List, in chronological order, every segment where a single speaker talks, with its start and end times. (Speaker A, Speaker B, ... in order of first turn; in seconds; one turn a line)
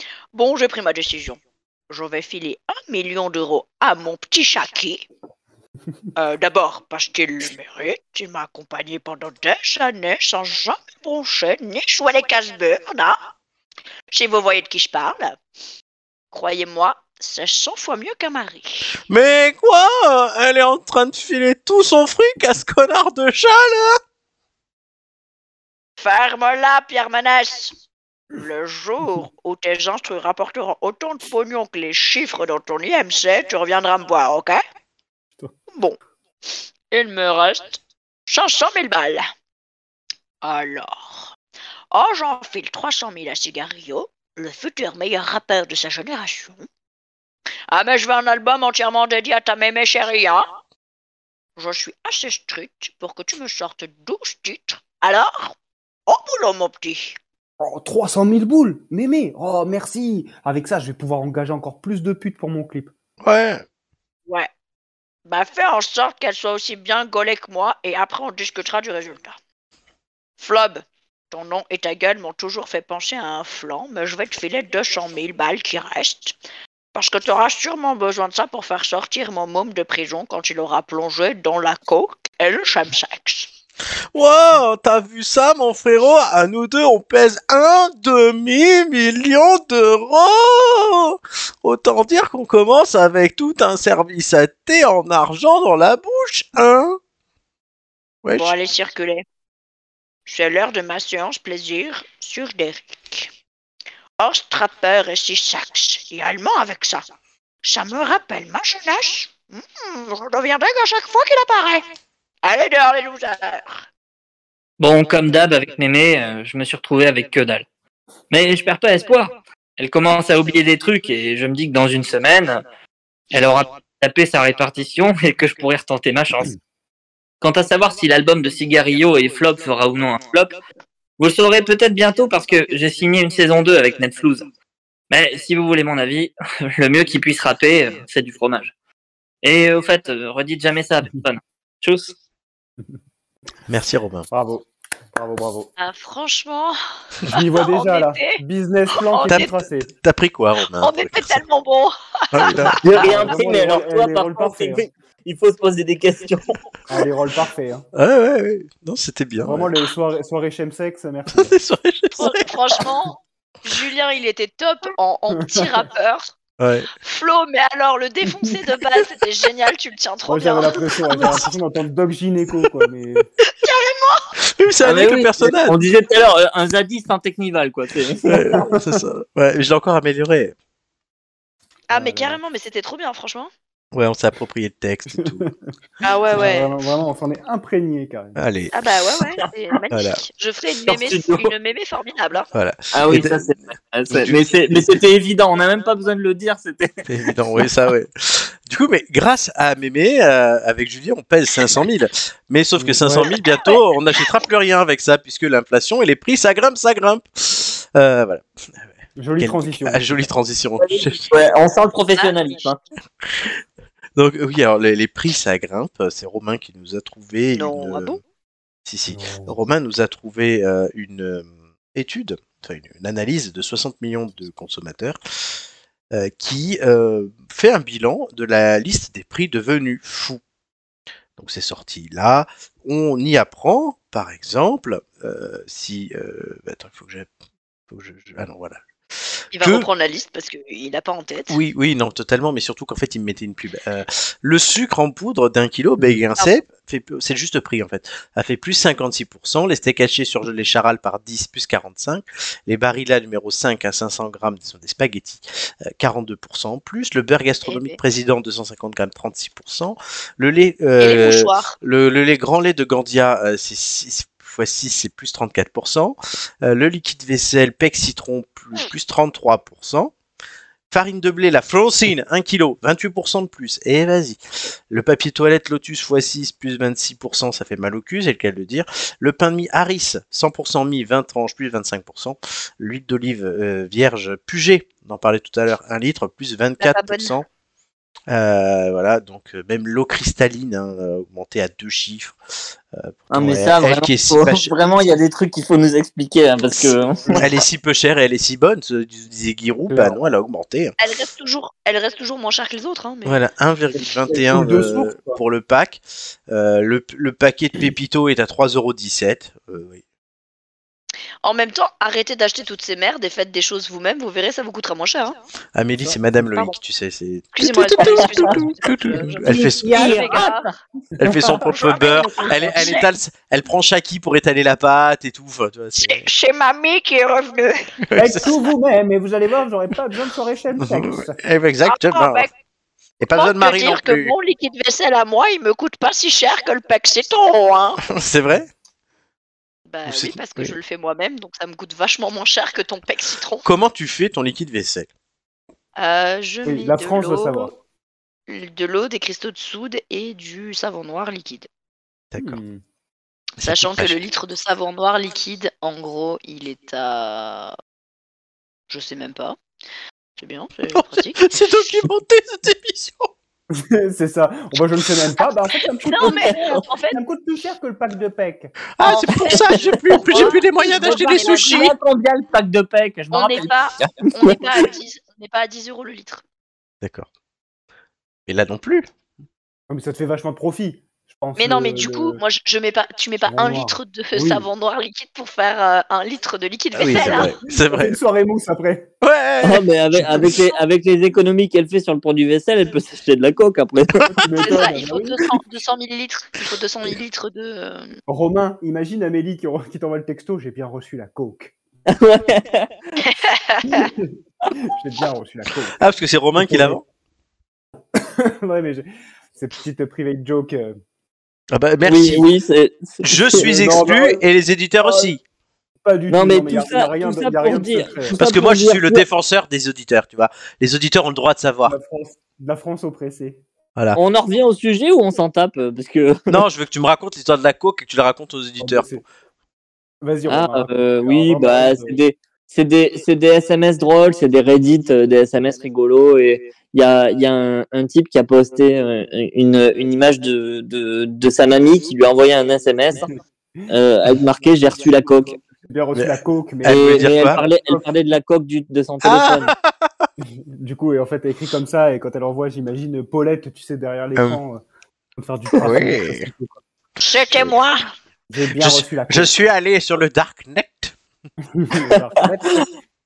Speaker A: 0.3-5.0
Speaker A: 6.2-13.1
Speaker A: 14.1-15.4
Speaker A: 16.3-18.9
Speaker B: 19.1-24.0
Speaker A: 26.0-27.7
Speaker A: 28.4-34.6
Speaker A: 36.9-39.2
Speaker A: 40.4-41.3
Speaker A: 41.9-46.6
Speaker A: 47.7-50.5
Speaker A: 51.6-55.5
Speaker A: 56.1-57.1
Speaker C: 57.6-62.9
Speaker B: 63.2-63.6
Speaker A: 65.3-69.3
Speaker A: 70.4-76.3
Speaker A: 76.9-83.5
Speaker B: 84.1-97.0
Speaker B: 98.2-98.5
Speaker A: 98.3-99.2
Speaker A: 100.2-103.3
Speaker A: 104.2-107.0
Speaker A: 107.6-111.8
Speaker A: 112.4-113.8
Speaker D: 114.8-117.7
Speaker D: 118.3-122.6
Speaker D: 123.3-126.5
Speaker D: 127.4-130.6
Speaker D: 131.2-134.5
Speaker D: 135.1-138.7
Speaker D: 139.4-142.1
Speaker B: 143.7-144.3
Speaker C: 144.3-145.7
Speaker A: 145.8-146.8
Speaker C: 147.3-149.9
Speaker A: 147.3-148.4
Speaker A: 149.0-149.5
Speaker B: 149.3-151.4
Speaker A: 150.8-153.3
Speaker B: 152.3-152.8
Speaker D: 152.8-156.6
Speaker C: 152.8-154.8
Speaker C: 156.9-157.8
Speaker B: 157.9-159.7
Speaker C: 159.4-161.5
Speaker B: 161.3-162.5
Speaker A: 162.2-166.3
Speaker C: 165.4-165.7
Speaker B: 166.6-166.9
Speaker A: 167.0-171.4
Speaker C: 170.3-173.3
Speaker A: 173.6-174.2
Speaker B: 174.4-175.8
Speaker D: 174.8-178.5
Speaker B: 178.2-180.5
Speaker C: 178.4-179.0
Speaker A: 181.9-183.5
Speaker C: 181.9-182.4
Speaker B: 183.9-185.4
Speaker C: 185.2-185.7
Speaker A: 186.0-186.7
Speaker C: 186.3-188.4
Speaker B: 188.3-188.9
Speaker A: 188.7-192.5
Speaker B: 189.9-190.2
Speaker D: 190.9-191.5
Speaker B: 192.5-193.5
Speaker D: 192.9-197.1
Speaker B: 194.1-194.9
Speaker B: 197.1-208.8
Speaker C: 202.8-203.3
Speaker C: 209.2-210.3
Speaker B: 209.4-211.3
Speaker D: 210.8-212.8
Speaker B: 213.3-213.5
Speaker B: 214.2-218.2
Speaker A: 217.5-218.2
Speaker B: 218.8-225.2
Speaker C: 219.1-219.6
Speaker B: 226.1-230.4
Speaker B: 231.4-237.3
Speaker B: 237.9-239.9
Speaker A: 239.5-241.6
Speaker B: 241.5-270.1
Speaker A: 257.6-258.0
Speaker A: 261.0-261.7
Speaker B: 270.9-287.4
Speaker A: 286.8-287.3
Speaker B: 288.3-292.4
Speaker B: 292.9-294.7
Speaker D: 293.3-297.5
Speaker B: 296.7-300.9
Speaker C: 299.9-300.2
Speaker A: 301.0-303.4
Speaker B: 303.2-310.0
Speaker C: 304.2-305.4
Speaker A: 311.4-315.4
Speaker B: 315.7-320.1
Speaker A: 317.5-320.7
Speaker D: 318.0-318.6
Speaker D: 319.4-320.7
Speaker B: 321.2-326.3
Speaker A: 321.6-323.1
Speaker A: 326.0-327.8
Speaker B: 328.0-328.5
Speaker C: 328.1-331.4
Speaker B: 330.8-332.5
Speaker A: 331.8-332.5
Speaker B: 333.2-334.3
Speaker A: 333.3-338.0
Speaker B: 338.0-338.7
Speaker A: 339.9-343.6
Speaker B: 340.1-340.7
Speaker B: 343.6-345.1
Speaker A: 346.0-347.7
Speaker C: 346.6-347.7
Speaker A: 348.5-351.7
Speaker B: 352.3-352.6
Speaker C: 352.4-352.8
Speaker A: 353.6-357.7
Speaker B: 353.6-354.1
Speaker A: 358.9-359.6
Speaker A: 360.4-361.6
Speaker B: 360.9-363.3
Speaker C: 363.7-368.7
Speaker A: 366.0-367.2
Speaker D: 366.4-366.8
Speaker B: 368.9-371.9
Speaker A: 369.0-371.9
Speaker D: 369.5-374.9
Speaker A: 373.3-376.4
Speaker B: 377.0-377.3
Speaker B: 378.5-379.1
Speaker C: 379.9-382.4
Speaker A: 381.6-387.5
Speaker C: 383.4-384.7
Speaker B: 386.9-388.2
Speaker C: 387.0-389.1
Speaker B: 389.2-390.6
Speaker D: 389.6-394.8
Speaker C: 394.4-395.4
Speaker A: 394.6-398.2
Speaker C: 398.3-401.7
Speaker D: 402.1-402.9
Speaker A: 403.2-404.1
Speaker C: 403.8-406.0
Speaker B: 406.0-407.0
Speaker C: 406.6-407.0
Speaker C: 408.1-411.0
Speaker B: 411.7-412.5
Speaker D: 412.0-413.8
Speaker B: 413.2-415.4
Speaker C: 413.6-414.4
Speaker C: 415.0-415.3
Speaker C: 416.0-418.4
Speaker D: 416.3-419.2
Speaker B: 418.4-421.9
Speaker C: 421.9-423.6
Speaker D: 424.1-426.6
Speaker B: 426.5-429.2
Speaker C: 428.8-429.2
Speaker C: 430.2-432.2
Speaker D: 430.5-443.3
Speaker D: 443.9-445.6
Speaker C: 445.9-448.1
Speaker B: 446.1-447.6
Speaker D: 446.8-449.7
Speaker B: 449.2-450.2
Speaker C: 450.4-454.8
Speaker C: 455.4-456.8
Speaker B: 455.8-456.5
Speaker A: 457.2-458.0
Speaker C: 458.5-459.5
Speaker B: 458.8-461.1
Speaker C: 461.7-462.9